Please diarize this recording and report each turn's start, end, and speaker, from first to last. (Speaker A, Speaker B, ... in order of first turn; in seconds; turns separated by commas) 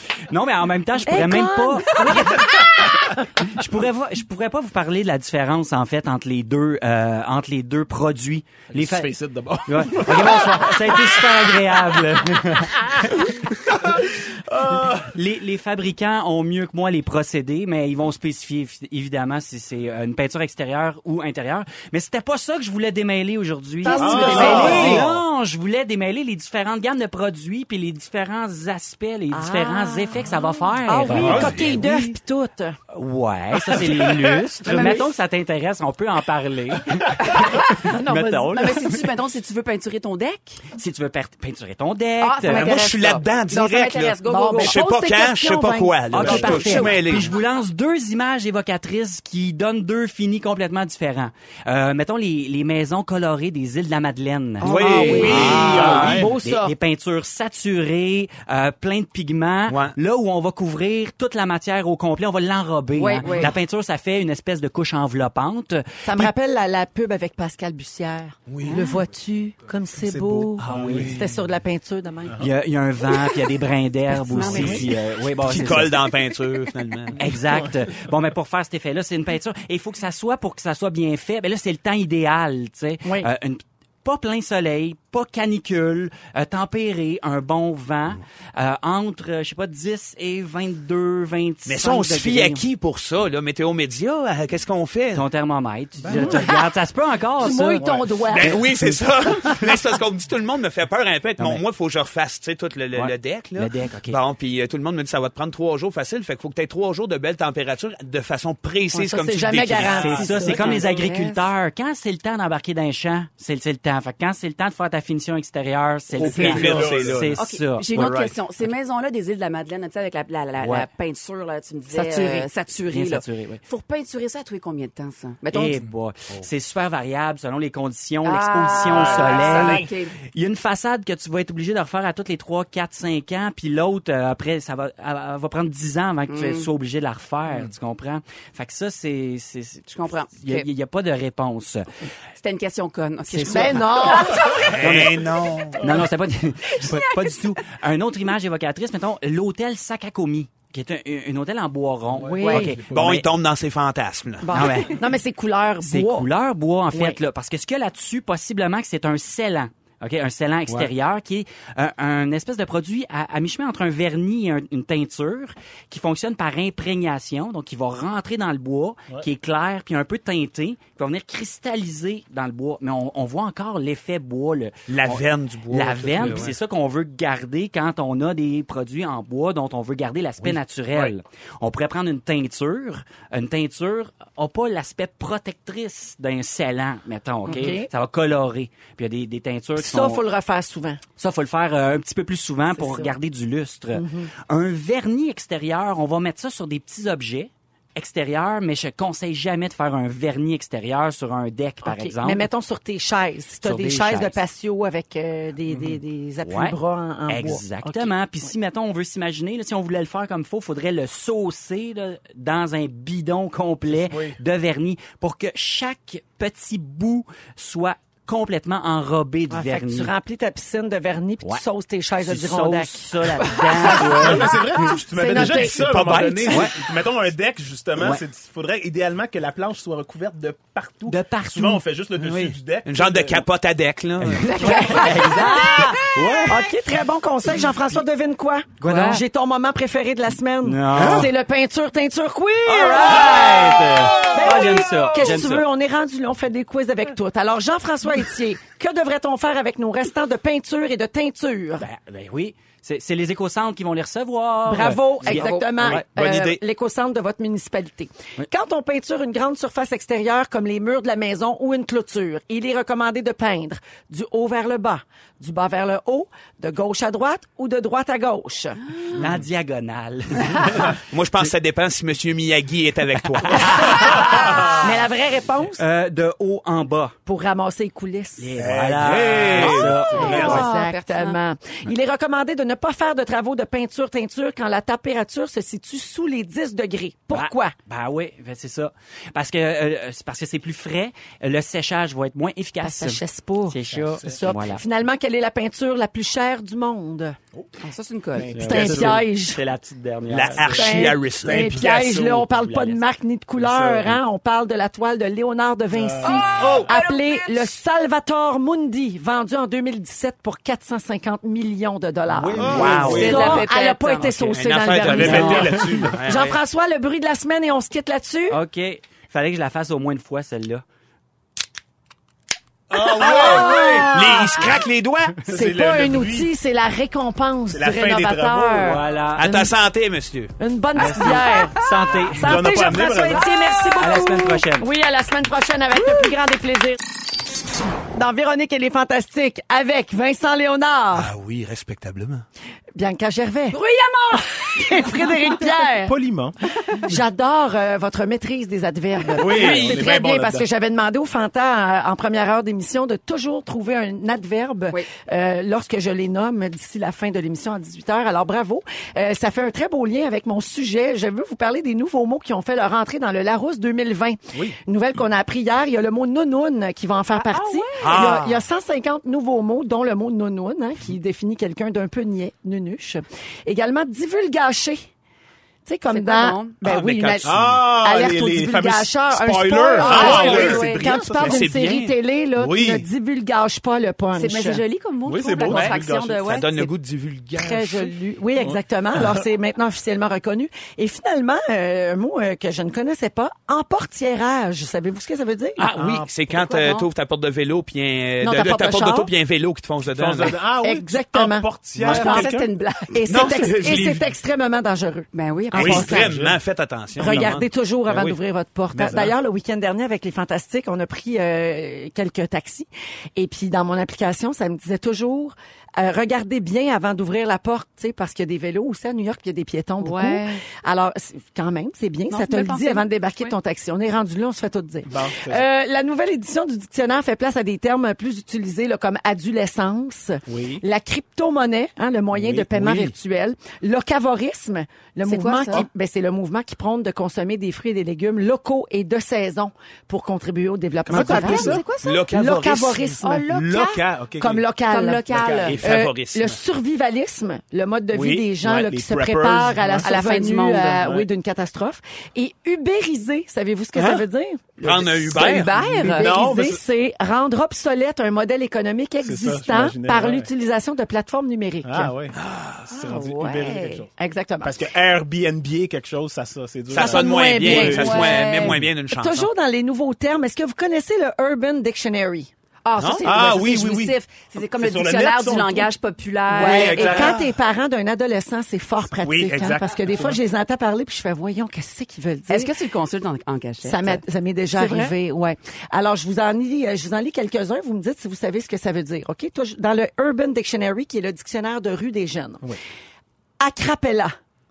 Speaker A: 0.3-2.2, Speaker B: 1.1-2.9, Speaker A: 3.4-9.1, Speaker C: 8.7-11.8, Speaker A: 9.7-13.3, Speaker C: 13.7-15.2, Speaker A: 14.8-31.9, Speaker B: 23.8-25.1, Speaker C: 23.9-25.1, Speaker D: 24.3-25.1, Speaker B: 29.3-32.8, Speaker C: 31.1-31.8, Speaker D: 31.2-31.8, Speaker A: 32.9-39.0, Speaker C: 33.7-34.5, Speaker B: 34.6-35.0, Speaker E: 34.7-35.0, Speaker E: 37.2-37.8, Speaker B: 37.8-38.7, Speaker E: 38.5-40.6, Speaker A: 40.8-42.7, Speaker E: 42.2-44.8, Speaker D: 42.5-47.3, Speaker B: 42.5-42.9, Speaker B: 44.2-47.0, Speaker A: 46.1-66.3, Speaker B: 54.6-56.8, Speaker D: 54.6-56.3, Speaker C: 54.8-56.3, Speaker E: 55.1-55.4, Speaker D: 59.7-60.0, Speaker E: 63.0-63.5, Speaker B: 66.0-72.5, Speaker D: 68.5-68.9, Speaker C: 70.0-71.3, Speaker A: 70.6-71.2, Speaker A: 72.4-76.0, Speaker B: 74.2-74.9, Speaker E: 74.4-74.8, Speaker D: 75.4-77.3, Speaker A: 77.2-92.7, Speaker B: 83.0-83.3, Speaker D: 91.7-95.3, Speaker A: 95.1-97.9, Speaker C: 96.0-96.4, Speaker B: 96.1-96.6, Speaker B: 97.4-98.7, Speaker C: 97.8-98.6, Speaker D: 98.3-110.6, Speaker A: 101.4-101.6, Speaker A: 103.0-104.2, Speaker B: 108.9-111.1, Speaker A: 109.8-118.0, Speaker E: 110.5-111.5, Speaker D: 116.2-118.4, Speaker C: 116.2-117.3, Speaker E: 117.4-125.8, Speaker A: 120.6-120.9, Speaker B: 121.9-122.5, Speaker A: 122.9-123.6, Speaker A: 125.5-141.9, Speaker E: 128.2-130.2, Speaker C: 128.9-129.9, Speaker E: 136.3-136.7, Speaker E: 139.9-140.7, Speaker E: 142.4-145.0, Speaker A: 143.3-144.2, Speaker B: 143.4-144.7, Speaker D: 144.7-145.9, Speaker A: 144.8-145.2, Speaker A: 145.7-153.3, Speaker E: 146.7-147.4, Speaker B: 152.2-152.8, Speaker C: 152.2-152.6, Speaker D: 152.6-154.7, Speaker B: 154.4-156.3, Speaker A: 154.5-155.0, Speaker A: 155.8-190.2, Speaker B: 156.9-157.2, Speaker D: 174.9-176.6, Speaker B: 187.5-187.9, Speaker B: 189.8-191.0, Speaker A: 191.2-202.5, Speaker B: 193.9-194.3, Speaker B: 201.8-208.5, Speaker A: 203.6-204.4, Speaker A: 206.4-206.8, Speaker A: 207.3-220.1, Speaker C: 214.0-214.4, Speaker B: 219.5-225.9, Speaker A: 222.2-224.6, Speaker C: 223.9-233.4, Speaker D: 225.4-226.6, Speaker A: 226.5-226.7, Speaker A: 231.1-232.4, Speaker D: 232.8-234.6, Speaker A: 234.2-236.6, Speaker E: 234.4-236.0, Speaker B: 234.6-251.8, Speaker A: 238.8-239.2, Speaker A: 240.6-241.3, Speaker C: 241.0-241.2, Speaker A: 242.7-245.7, Speaker A: 251.8-256.1, Speaker B: 254.7-269.2, Speaker E: 255.3-255.8, Speaker D: 255.8-256.6, Speaker A: 269.1-270.9, Speaker D: 270.9-274.2, Speaker A: 273.5-274.7, Speaker B: 274.3-275.8, Speaker A: 275.8-277.2, Speaker B: 277.3-278.6, Speaker A: 278.4-280.7, Speaker C: 278.6-280.7, Speaker D: 279.0-280.0, Speaker E: 280.1-281.4, Speaker B: 280.2-287.7, Speaker A: 287.3-294.8, Speaker B: 292.8-297.4, Speaker C: 293.9-294.4, Speaker E: 297.8-298.5, Speaker C: 298.4-299.2, Speaker A: 298.5-301.0, Speaker B: 298.6-299.6, Speaker D: 300.3-301.8, Speaker C: 300.6-302.5, Speaker B: 300.7-318.6, Speaker A: 302.1-303.0, Speaker C: 303.6-304.2, Speaker A: 303.7-304.1, Speaker C: 305.9-306.9, Speaker E: 306.2-307.7, Speaker D: 306.6-306.9, Speaker C: 312.4-313.7, Speaker D: 312.6-313.4, Speaker A: 312.6-313.6, Speaker E: 313.0-314.6, Speaker D: 314.5-316.6, Speaker C: 315.0-316.2, Speaker A: 315.1-316.1, Speaker A: 318.5-320.8, Speaker D: 322.9-325.5, Speaker C: 322.9-324.4, Speaker B: 323.0-324.7, Speaker C: 325.5-326.5, Speaker B: 325.5-329.0, Speaker C: 327.7-329.0, Speaker A: 328.8-329.7, Speaker D: 329.4-330.5, Speaker B: 330.6-337.0, Speaker A: 330.9-332.9, Speaker C: 332.4-333.5, Speaker A: 334.0-334.9, Speaker E: 336.0-336.3, Speaker B: 338.1-341.3, Speaker D: 341.1-342.4, Speaker B: 342.9-343.8, Speaker E: 343.7-345.7, Speaker B: 344.3-346.1, Speaker C: 346.0-346.6, Speaker B: 346.9-375.0, Speaker C: 349.3-350.7, Speaker E: 349.5-349.9, Speaker E: 367.4-368.4, Speaker D: 368.0-368.6, Speaker B: 375.9-384.8, Speaker E: 376.1-376.8, Speaker D: 376.8-377.8, Speaker C: 377.4-381.7, Speaker E: 380.0-381.4, Speaker D: 380.2-382.2, Speaker C: 382.6-383.1, Speaker E: 384.4-386.9, Speaker C: 385.2-386.5, Speaker D: 385.6-388.1, Speaker B: 387.6-395.9, Speaker C: 388.6-389.4, Speaker D: 395.8-400.6, Speaker C: 395.9-396.3, Speaker E: 396.5-397.1, Speaker B: 398.4-399.3, Speaker C: 400.0-402.7, Speaker B: 400.8-406.4, Speaker E: 402.0-403.1, Speaker D: 403.3-404.2, Speaker E: 405.3-406.1, Speaker D: 405.8-408.4, Speaker C: 405.8-406.6, Speaker B: 407.2-443.7, Speaker C: 407.3-407.5, Speaker D: 408.9-409.3, Speaker C: 409.0-409.3, Speaker E: 420.0-420.6, Speaker E: 422.3-423.5, Speaker C: 425.1-425.7, Speaker C: 430.5-430.8, Speaker C: 432.3-433.1, Speaker E: 435.3-435.9, Speaker C: 441.1-441.9, Speaker D: 441.1-441.4, Speaker E: 441.1-442.2, Speaker D: 442.0-443.2, Speaker E: 443.2-444.0, Speaker C: 443.4-444.7, Speaker B: 444.4-462.1, Speaker E: 444.9-445.8, Speaker C: 445.3-445.8, Speaker D: 445.4-446.6, Speaker C: 448.1-450.1, Speaker E: 450.0-451.1, Speaker C: 451.0-451.3, Speaker D: 453.9-454.2, Speaker D: 454.8-455.8, Speaker C: 454.9-456.8, Speaker E: 455.3-456.3, Speaker C: 459.2-460.5, Speaker C: 461.8-464.1, Speaker D: 462.4-462.9, Speaker B: 463.0-464.8, Speaker C: 464.6-468.3, Speaker D: 466.9-469.5, Speaker B: 466.9-472.5, Speaker E: 467.9-468.8, Speaker E: 472.9-477.3, Speaker D: 473.0-473.3, Speaker C: 473.2-475.9, Speaker B: 476.5-482.7, Speaker C: 476.6-477.4, Speaker D: 476.6-477.5, Speaker C: 479.2-480.4, Speaker E: 482.5-484.2, Speaker B: 483.8-492.7, Speaker E: 484.7-485.2, Speaker B: 493.6-494.4